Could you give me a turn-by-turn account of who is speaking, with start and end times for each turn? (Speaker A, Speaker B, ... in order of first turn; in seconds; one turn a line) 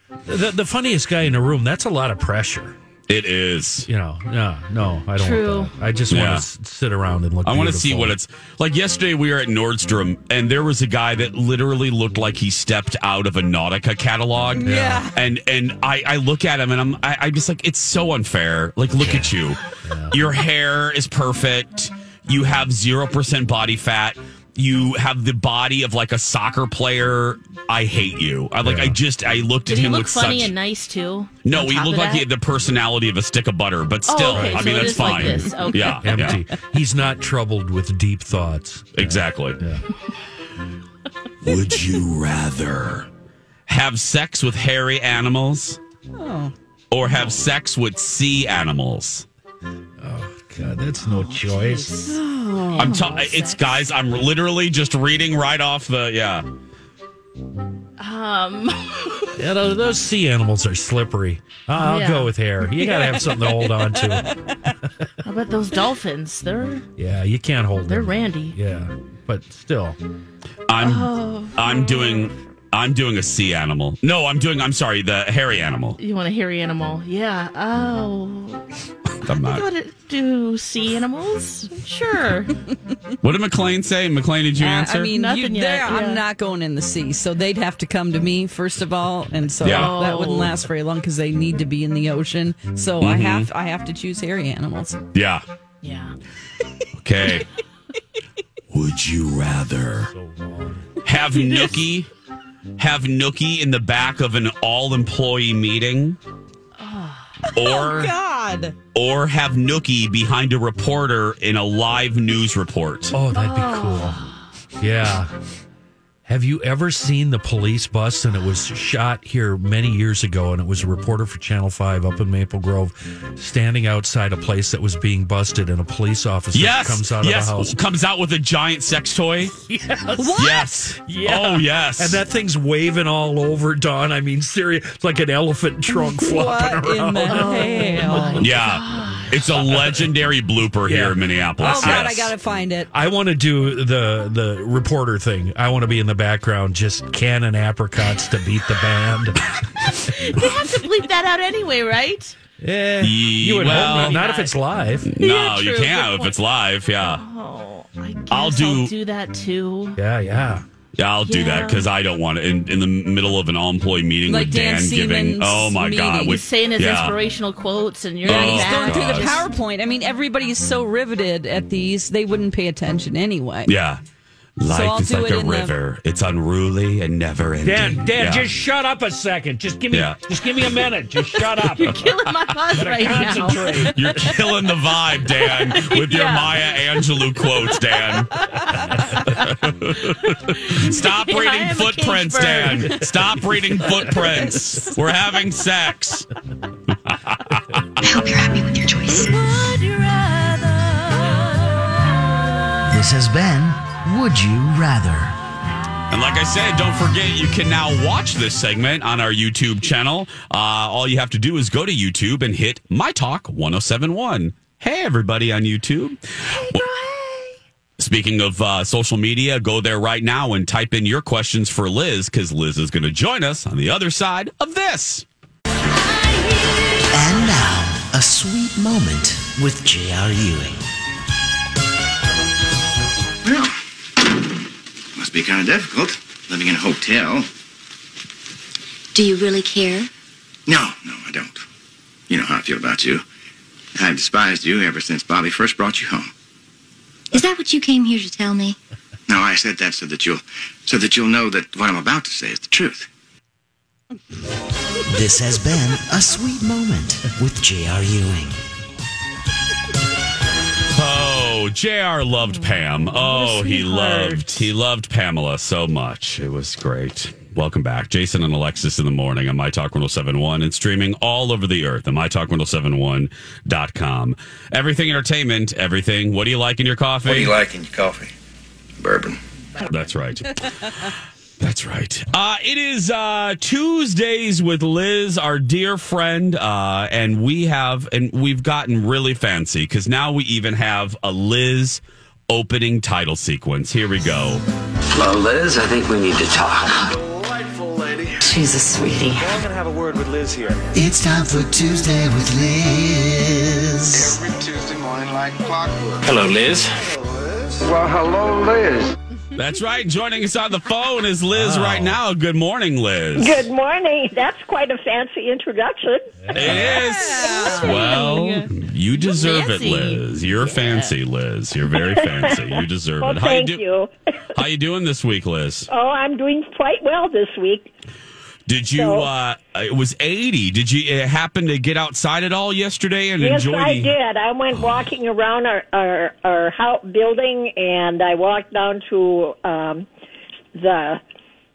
Speaker A: 0.2-2.8
Speaker B: 3.1-3.9
Speaker A: 3.9-8.2
Speaker C: 5.2-5.8
Speaker B: 6.1-6.4
Speaker B: 7.4-19.6
Speaker D: 14.5-15.2
Speaker A: 14.6-15.0
Speaker A: 19.0-20.3
Speaker B: 20.1-30.5
Speaker A: 28.6-29.0
Speaker C: 29.7-32.2
Speaker B: 31.4-36.4
Speaker C: 34.0-36.4
Speaker A: 34.3-35.2
Speaker A: 36.0-39.8
Speaker B: 38.9-39.6
Speaker B: 41.4-43.1
Speaker B: 43.7-45.8
Speaker D: 46.2-46.5
Speaker B: 46.9-49.2
Speaker A: 50.0-51.9
Speaker C: 51.0-52.2
Speaker D: 52.0-53.0
Speaker B: 52.8-56.4
Speaker C: 52.8-53.9
Speaker C: 58.0-59.4
Speaker A: 59.4-65.1
Speaker C: 61.8-62.3
Speaker D: 64.2-64.6
Speaker C: 65.2-66.9
Speaker A: 67.0-70.0
Speaker C: 67.9-68.5
Speaker B: 70.7-76.0
Speaker C: 70.8-72.2
Speaker C: 76.0-78.7
Speaker B: 79.2-79.6
Speaker C: 79.2-82.5
Speaker B: 83.2-85.1
Speaker D: 84.6-95.0
Speaker C: 85.1-86.2
Speaker B: 89.6-90.0
Speaker C: 89.6-90.6
Speaker B: 93.0-93.5
Speaker B: 95.1-95.4
Speaker C: 95.8-96.1
Speaker B: 97.0-97.5
Speaker B: 98.7-100.1
Speaker A: 100.1-100.9
Speaker B: 101.0-102.1
Speaker C: 101.4-101.8
Speaker B: 102.8-106.2
Speaker C: 106.8-107.4
Speaker B: 107.5-108.1
Speaker D: 107.5-108.7
Speaker B: 108.9-113.2
Speaker A: 113.1-114.2
Speaker C: 113.3-114.4
Speaker A: 114.8-115.3
Speaker A: 116.2-127.7
Speaker B: 126.5-129.5
Speaker A: 129.6-138.4
Speaker D: 130.1-130.9
Speaker B: 130.4-132.2
Speaker D: 135.9-138.4
Speaker C: 137.3-139.8
Speaker B: 138.4-142.3
Speaker A: 140.8-141.2
Speaker D: 141.6-142.9
Speaker A: 142.9-149.5
Speaker C: 149.9-152.3
Speaker A: 152.6-155.1
Speaker B: 153.0-154.3
Speaker C: 153.6-154.6
Speaker B: 155.0-157.2
Speaker C: 155.2-160.0
Speaker B: 158.3-158.9
Speaker A: 160.0-160.6
Speaker B: 161.0-167.2
Speaker C: 161.2-161.9
Speaker D: 164.3-166.4
Speaker C: 166.2-169.4
Speaker B: 168.2-169.4
Speaker D: 168.2-173.7
Speaker B: 173.7-174.0
Speaker B: 174.6-178.5
Speaker D: 174.6-175.7
Speaker A: 177.6-182.1
Speaker B: 179.9-180.8
Speaker C: 181.7-184.4
Speaker A: 182.7-184.1
Speaker B: 183.8-188.4
Speaker C: 185.4-186.8
Speaker D: 188.6-189.1
Speaker B: 189.4-196.3
Speaker C: 190.4-193.1
Speaker B: 197.1-197.8
Speaker E: 198.0-199.3
Speaker F: 202.9-205.4
Speaker B: 206.1-216.9
Speaker B: 218.0-225.2
Speaker F: 227.1-230.8
Speaker G: 233.4-233.7
Speaker G: 235.2-237.5
Speaker E: 239.1-240.1
Speaker G: 240.7-241.6
Speaker G: 242.3-243.2
Speaker G: 243.9-246.3
Speaker E: 247.3-248.8
Speaker G: 249.3-253.1
Speaker F: 255.1-258.6
Speaker B: 260.9-277.6
Speaker C: 262.5-262.8
Speaker D: 263.1-264.7
Speaker H: 277.2-278.3
Speaker H: 279.0-279.4
Speaker B: 279.9-294.6
Speaker I: 295.1-297.1
Speaker H: 296.9-298.5
Speaker I: 298.4-299.6
Speaker H: 299.4-300.9
Speaker F: 300.9-304.4
Speaker H: 304.1-309.1
Speaker I: 306.2-307.0
Speaker B: 309.6-313.7
Speaker A: 311.5-312.2
Speaker J: 313.4-316.8
Speaker A: 316.4-317.0
Speaker B: 316.5-323.8
Speaker D: 316.8-318.7
Speaker C: 317.4-318.2
Speaker C: 319.1-321.1
Speaker J: 321.9-324.1
Speaker B: 324.5-325.9
Speaker J: 325.9-327.9
Speaker B: 328.7-334.1
Speaker J: 328.9-329.3
Speaker J: 333.4-340.1
Speaker B: 334.7-335.0
Speaker J: 340.8-341.2